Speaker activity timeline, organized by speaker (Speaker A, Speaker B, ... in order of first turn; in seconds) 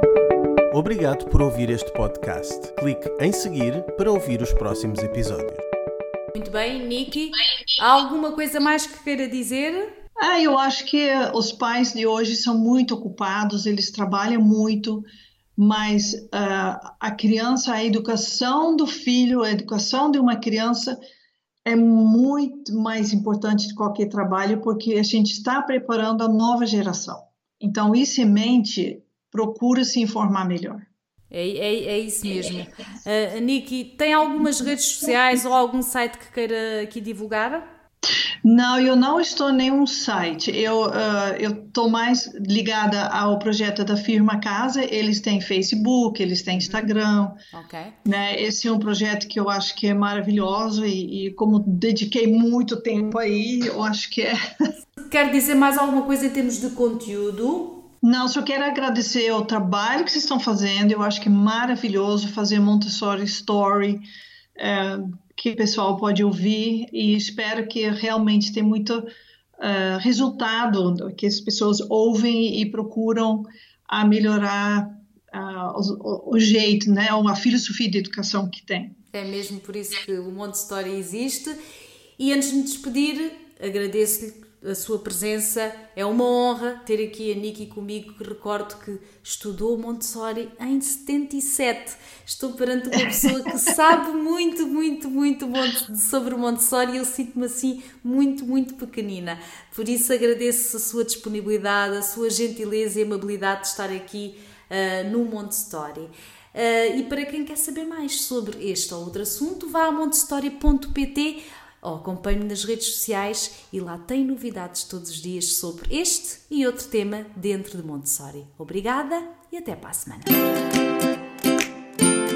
Speaker A: 0.7-5.6
Speaker B: 6.3-9.9, 31.3-37.6, 47.5-48.0, 55.0-57.8, 79.1-81.6, 82.2-120.3
Speaker C: 10.2-21.0, 21.6-30.9, 38.4-47.4, 48.0-54.4, 58.0-64.0, 64.5-69.0, 69.6-79.0